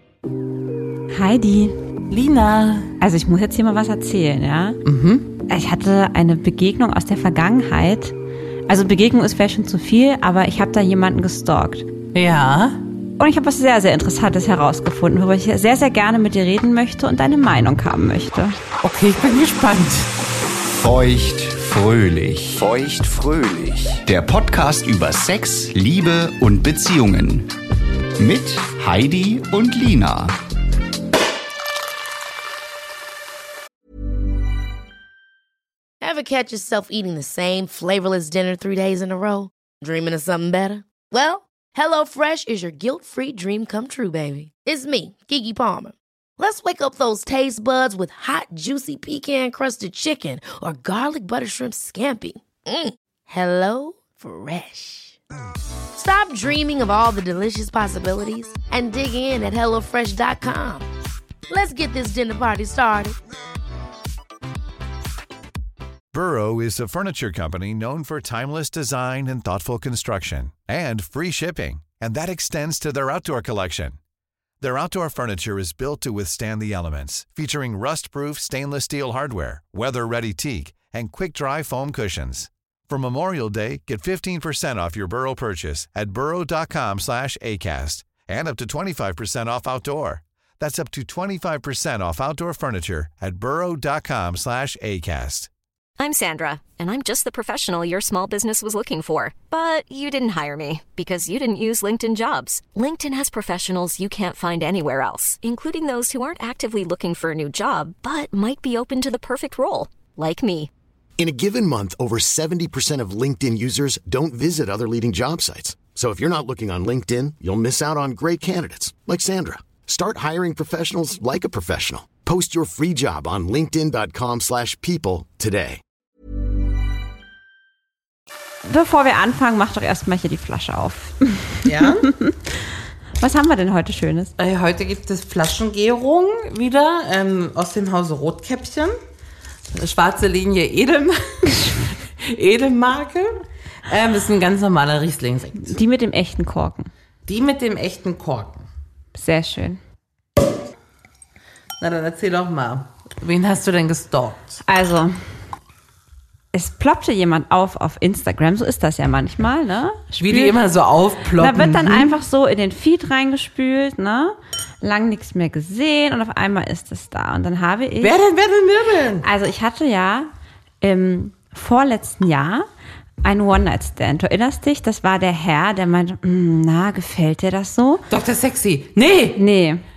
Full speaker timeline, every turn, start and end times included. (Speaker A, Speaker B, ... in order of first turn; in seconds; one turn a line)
Speaker A: 1.1-1.8
Speaker B: 2.1-2.9
Speaker A: 3.0-4.8
Speaker B: 4.8-5.3
Speaker A: 5.5-8.2
Speaker A: 8.7-11.9
Speaker B: 12.1-12.8
Speaker A: 13.2-18.6
Speaker B: 18.8-20.1
Speaker C: 20.7-27.5
Speaker C: 28.2-30.4
Speaker D: 36.0-55.2
Speaker D: 56.0-60.9
Speaker D: 61.5-63.2
Speaker E: 66.1-74.0
Speaker E: 74.6-95.5
Speaker F: 96.0-110.7
Speaker G: 111.2-125.8
Speaker A: 128.7-132.4
Speaker B: 131.7-132.1
Speaker A: 133.2-134.3
Speaker B: 134.4-138.9
Speaker B: 139.7-145.7
Speaker A: 145.6-146.9
Speaker B: 147.3-148.7
Speaker A: 149.1-149.8
Speaker B: 151.8-154.6
Speaker A: 154.7-155.2
Speaker A: 156.5-160.6
Speaker B: 160.2-162.1
Speaker A: 161.4-168.2
Speaker B: 168.0-169.2
Speaker A: 169.2-170.3
Speaker A: 170.8-172.7
Speaker A: 173.2-178.1
Speaker B: 178.1-179.4
Speaker A: 179.4-179.8